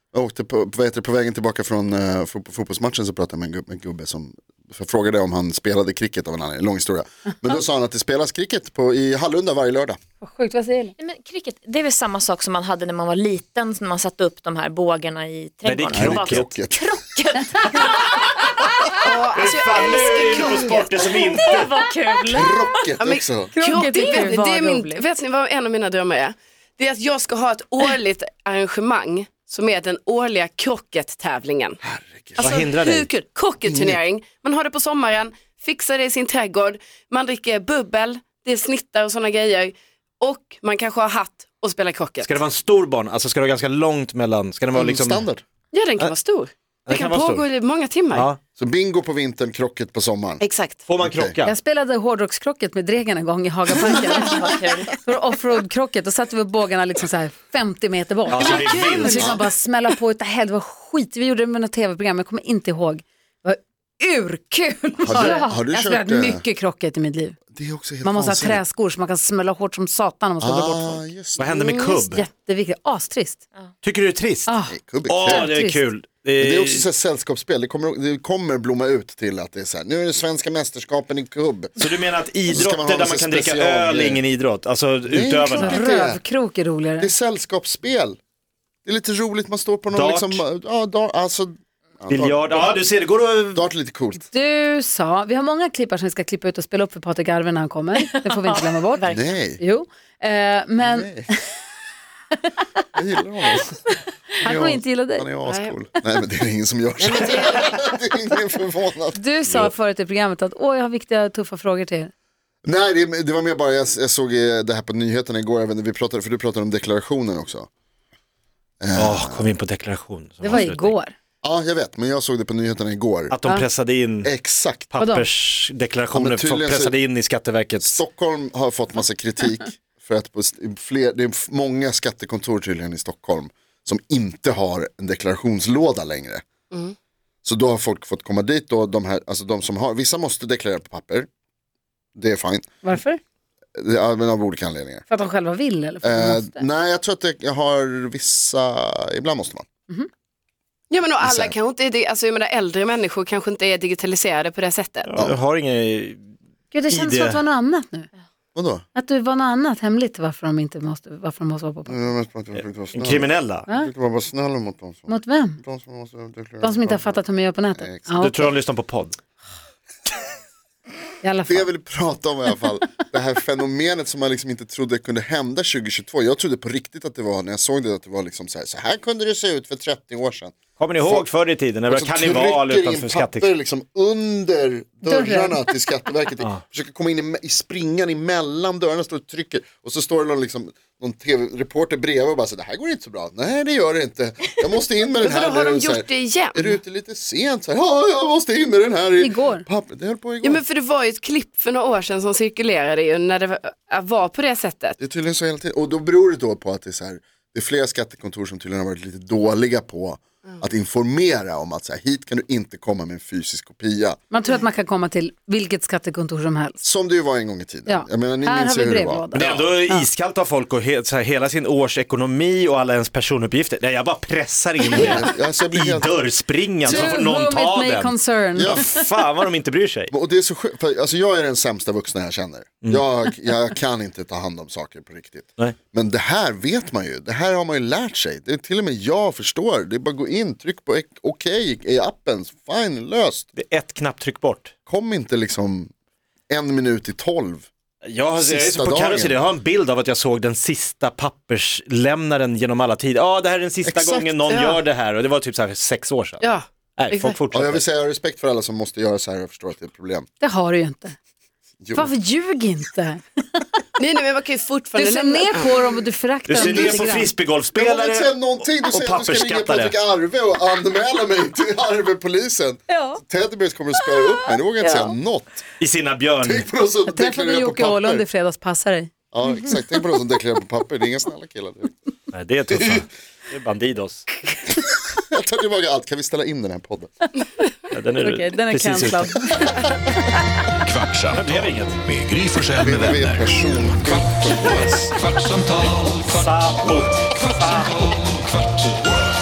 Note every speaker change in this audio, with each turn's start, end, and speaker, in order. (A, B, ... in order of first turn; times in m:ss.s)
0:00.1-0:10.0 A
0:10.2-0:10.9 B
0:11.0-0:19.0 C
0:15.6-0:16.5 D
0:15.9-0:16.9 A
0:19.0-0:20.9 E
0:19.2-0:21.7 D
0:20.8-0:22.6 C
0:22.2-0:23.5 A
0:23.0-0:31.8 E
0:23.6-0:24.5 B
0:23.6-0:25.0 C
0:31.8-0:32.5 A
0:32.3-0:33.1 D
0:32.4-0:42.4 E
0:33.7-0:34.0 A
0:42.2-0:45.2 D
0:44.7-0:45.4 A
0:45.7-0:48.3 E
0:46.8-0:47.5 D
0:48.1-0:48.4 D
0:48.6-0:50.4 A
0:50.4-0:50.8 E
0:50.9-0:51.6 D
0:51.0-0:51.4 A
0:51.4-1:07.4 B
0:54.2-0:54.9 C
0:58.3-0:59.2 D
0:58.4-0:59.3 E
0:59.2-0:59.5 A
1:05.0-1:06.4 A
1:07.5-1:08.6 A
1:08.0-1:11.0 B
1:10.4-1:11.6 A
1:11.4-1:12.2 D
1:11.5-1:12.0 E
1:12.1-1:13.4 B
1:13.8-1:14.5 D
1:14.5-1:15.8 B
1:14.7-1:15.5 A
1:15.1-1:16.8 D
1:16.4-1:21.8 A
1:21.8-1:25.8 D
1:22.5-1:24.2 A
1:25.1-1:26.2 A
1:25.5-1:27.1 B
1:27.0-1:28.2 A
1:28.8-1:32.7 A
1:29.9-1:30.4 D
1:32.1-1:33.6 D
1:33.5-1:34.3 A
1:34.2-1:39.1 B
1:38.0-1:39.2 C
1:39.1-1:39.6 A
1:39.6-1:41.4 B
1:40.8-1:41.3 A
1:42.9-1:49.7 A
1:44.4-1:45.3 B
1:45.4-1:45.7 E
1:47.0-1:47.7 E
1:49.1-1:52.1 B
1:52.6-1:57.7 A
1:58.8-1:59.5 A
1:59.0-2:00.9 D
2:00.4-2:01.1 B
2:01.4-2:03.4 A
2:03.3-2:08.0 D
2:04.2-2:04.9 A
2:05.0-2:05.3 B
2:06.1-2:07.0 A
2:07.8-2:16.4 A
2:17.4-2:21.3 A
2:22.2-2:22.7 A
2:22.8-2:23.2 B
2:23.8-2:25.0 A
2:25.1-2:26.6 B
2:26.0-2:29.6 A
2:30.9-2:35.1 E
2:31.2-2:31.5 A
2:35.0-2:36.2 D
2:36.7-2:38.1 B
2:36.9-2:37.4 D
2:38.5-2:38.8 A
2:38.9-2:42.0 B
2:41.9-2:47.2 A
2:42.5-2:43.6 D
2:45.1-2:45.6 B
2:46.6-2:48.5 B
2:47.7-2:48.2 A
2:48.2-2:49.2 D
2:51.2-2:51.7 B
2:51.5-3:01.3 A
3:00.8-3:03.5 D
3:01.9-3:20.6 A
3:05.0-3:05.7 B
3:15.2-3:16.8 E
3:19.2-3:19.6 B
3:20.4-3:25.0 E
3:25.0-3:34.2 A
3:34.3-3:36.8 B
3:36.8-3:39.5 A
3:37.9-3:40.0 B
3:39.3-3:50.1 D
3:44.9-3:46.1 A
3:46.8-3:47.2 A
3:46.8-3:48.9 B
3:48.5-3:48.9 A
3:50.1-4:03.5 A
4:03.5-4:04.7 D
4:04.9-4:05.9 A
4:06.5-4:07.7 A
4:08.0-4:17.8 D
4:08.4-4:09.4 A
4:13.8-4:14.3 A
4:14.5-4:14.8 E
4:16.4-4:17.4 E
4:17.5-4:20.3 A
4:20.4-4:21.2 B
4:21.8-4:22.1 A
4:21.9-4:23.7 B
4:24.0-4:25.9 E
4:24.9-4:27.3 B
4:26.5-4:30.0 D
4:26.6-4:27.0 A
4:27.7-4:35.6 A
4:32.9-4:33.2 B
4:34.8-4:35.1 B
4:35.8-4:36.7 D
4:36.4-4:38.2 A
4:37.1-4:39.1 B
4:39.3-4:41.9 A
4:42.3-4:44.3 D
4:42.7-4:43.0 A
4:45.1-4:47.1 A
4:47.9-4:49.5 D
4:48.2-4:49.7 B
4:50.8-4:53.6 F
4:51.3-4:52.0 D
4:52.8-4:55.2 A
4:56.0-4:58.1 D